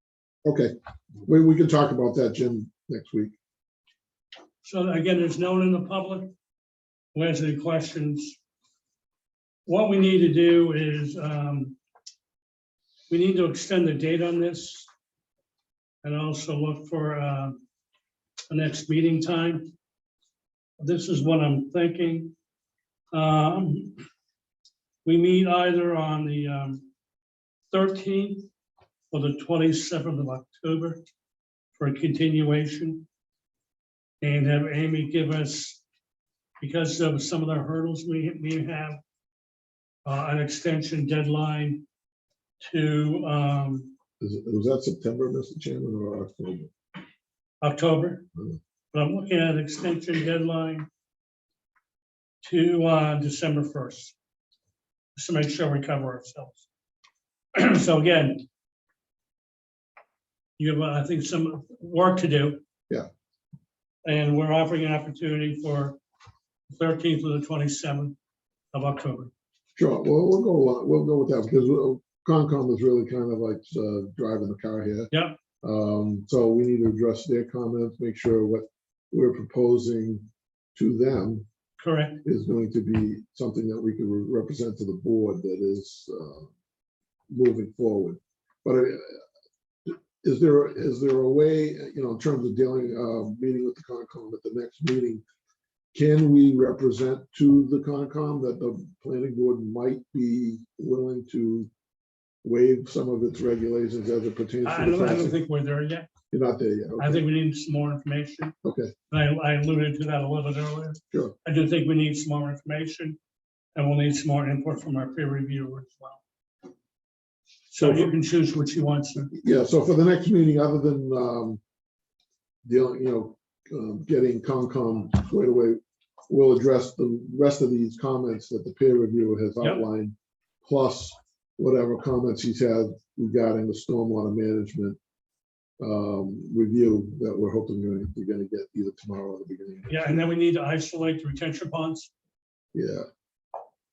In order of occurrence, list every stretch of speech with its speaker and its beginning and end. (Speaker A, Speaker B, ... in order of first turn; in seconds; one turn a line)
Speaker A: 0.4-0.7
Speaker A: 1.2-3.4
Speaker B: 4.6-6.3
Speaker B: 7.2-8.4
Speaker B: 9.7-11.8
Speaker B: 13.1-14.9
Speaker B: 16.0-17.6
Speaker B: 18.5-19.7
Speaker B: 20.8-22.3
Speaker B: 23.1-24.0
Speaker B: 25.1-26.9
Speaker B: 27.7-28.5
Speaker B: 29.1-31.0
Speaker B: 31.8-33.1
Speaker B: 34.2-35.8
Speaker B: 36.6-39.0
Speaker B: 40.0-41.9
Speaker B: 42.6-43.9
Speaker A: 44.2-46.7
Speaker B: 47.6-48.3
Speaker B: 48.9-50.9
Speaker B: 52.4-54.1
Speaker B: 55.2-56.7
Speaker B: 57.5-58.4
Speaker B: 60.6-62.6
Speaker B: 64.0-66.0
Speaker B: 66.7-68.2
Speaker B: 68.7-69.3
Speaker A: 69.8-81.5
Speaker B: 75.1-75.4
Speaker B: 81.8-82.2
Speaker A: 82.2-86.5
Speaker A: 87.3-89.2
Speaker A: 89.9-95.2
Speaker A: 95.9-101.7
Speaker A: 102.4-105.4
Speaker B: 104.6-106.1
Speaker A: 106.3-107.2
Speaker B: 107.0-108.6
Speaker A: 108.6-108.9
Speaker B: 109.1-113.2
Speaker B: 113.8-116.2
Speaker B: 117.7-119.3
Speaker A: 117.8-118.1
Speaker A: 119.4-121.6
Speaker A: 122.7-135.0
Speaker A: 135.8-140.2
Speaker B: 139.9-142.1
Speaker A: 142.7-143.1